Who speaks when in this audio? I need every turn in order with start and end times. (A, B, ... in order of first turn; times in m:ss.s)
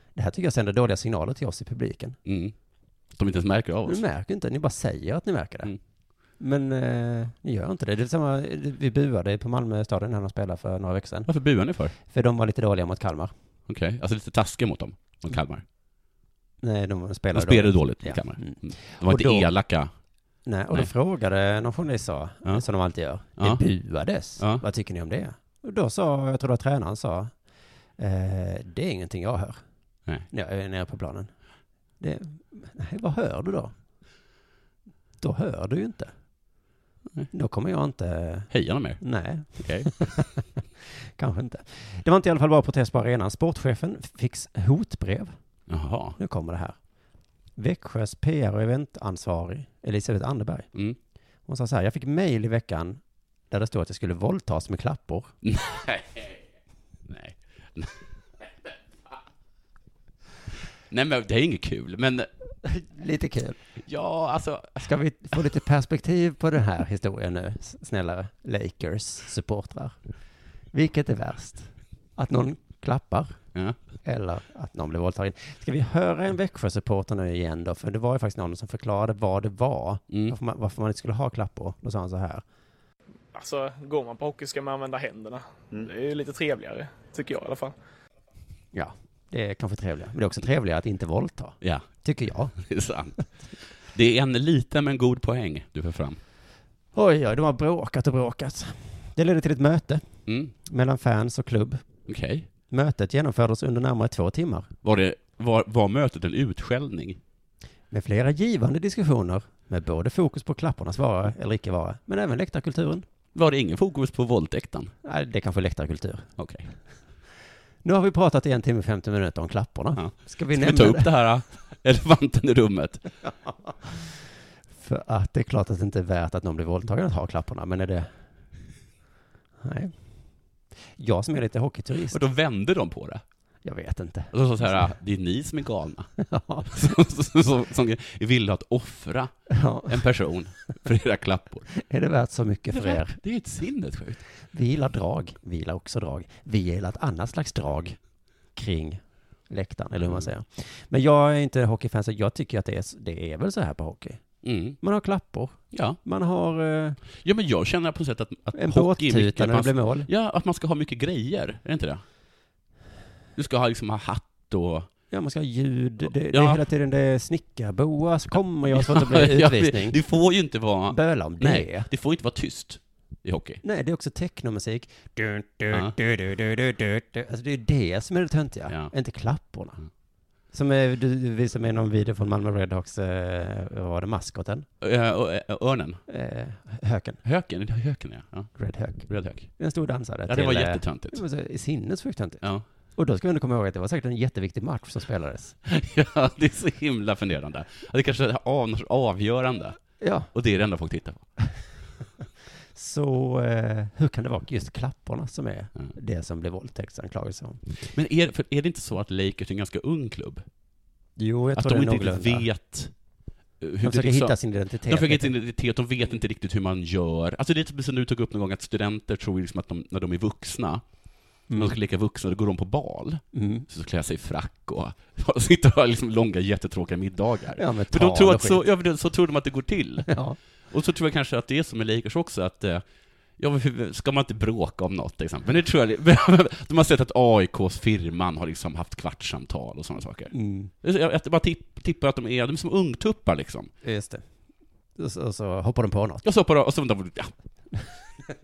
0:00.2-0:02.2 A
0:02.2-0:02.6 B
0:03.1-0:04.0 B
0:03.9-0:05.8 A
0:06.4-0:11.3 A
0:11.3-0:12.0 B
0:12.0-0:13.3 A
0:13.7-0:15.6 B
0:16.6-0:19.5 A
0:17.3-0:19.9 B
0:20.4-0:27.3 A
0:23.4-0:23.6 B
0:28.0-0:29.6 A
0:30.3-0:31.3 A
0:32.0-0:33.7 A
0:35.2-0:36.1 A
0:37.3-0:40.5 A
0:38.5-0:39.9 B
0:41.2-0:45.4 A
0:45.7-0:46.2 B
0:46.2-0:46.8 A
0:47.6-0:50.7 A
0:51.5-0:55.3 A
0:55.4-0:56.4 B
0:57.1-0:58.7 B
1:00.9-1:02.3 B
1:02.6-1:03.6 A
1:03.8-1:04.9 B
1:04.8-1:10.0 A
1:10.7-1:13.4 A
1:14.0-1:22.4 A
1:20.1-1:20.4 B
1:23.3-1:27.7 C
1:28.7-1:32.6 A
1:31.6-1:31.9 B
1:32.5-1:36.2 B
1:36.9-1:40.0 A
1:40.3-1:40.5 B
1:40.6-1:41.8 A
1:42.1-1:42.5 B
1:42.7-1:44.7 A
1:44.8-1:47.2 B
1:47.9-1:53.1 A
1:53.3-1:54.9 B
1:55.0-1:56.3 A
1:56.4-1:56.7 B
1:57.8-2:01.1 A
2:00.0-2:03.1 B
2:03.6-2:04.2 A
2:04.8-2:08.1 A
2:09.6-2:10.0 A
2:11.0-2:12.2 A
2:12.1-2:13.2 B
2:13.6-2:14.9 A
2:14.3-2:16.1 B
2:16.2-2:16.8 A
2:16.7-2:21.7 B
2:19.5-2:20.0 A
2:21.7-2:23.2 A
2:22.7-2:24.2 B
2:24.5-2:28.0 A
2:28.6-2:34.2 A
2:34.4-2:34.8 B
2:34.8-2:37.0 A
2:35.7-2:36.0 B
2:37.2-2:42.0 B
2:38.5-2:40.1 A
2:43.4-2:44.9 B
2:45.1-2:50.0 A
2:46.3-2:46.6 B
2:48.7-2:53.6 B
2:50.9-2:51.9 A
2:53.6-2:59.8 A
3:00.5-3:04.7 A
3:04.8-3:06.0 B
3:06.1-3:07.2 A
3:07.2-3:09.5 B
3:08.6-3:15.6 A
3:10.3-3:11.2 B
3:15.6-3:21.2 B
3:20.0-3:20.3 A
3:22.8-3:27.6 A
3:27.8-3:30.4 B
3:31.2-3:32.5 A
3:31.6-3:32.9 B
3:33.6-3:40.8 B
3:33.8-3:35.3 A
3:41.5-3:41.8 A
3:41.5-3:50.1 B
3:43.3-3:43.7 A
3:47.6-3:48.6 A
3:50.1-3:50.4 A
3:50.7-3:52.8 B
3:53.4-4:03.7 B
4:00.3-4:00.7 A
4:03.8-4:04.2 A
4:05.0-4:06.2 A
4:06.2-4:07.3 B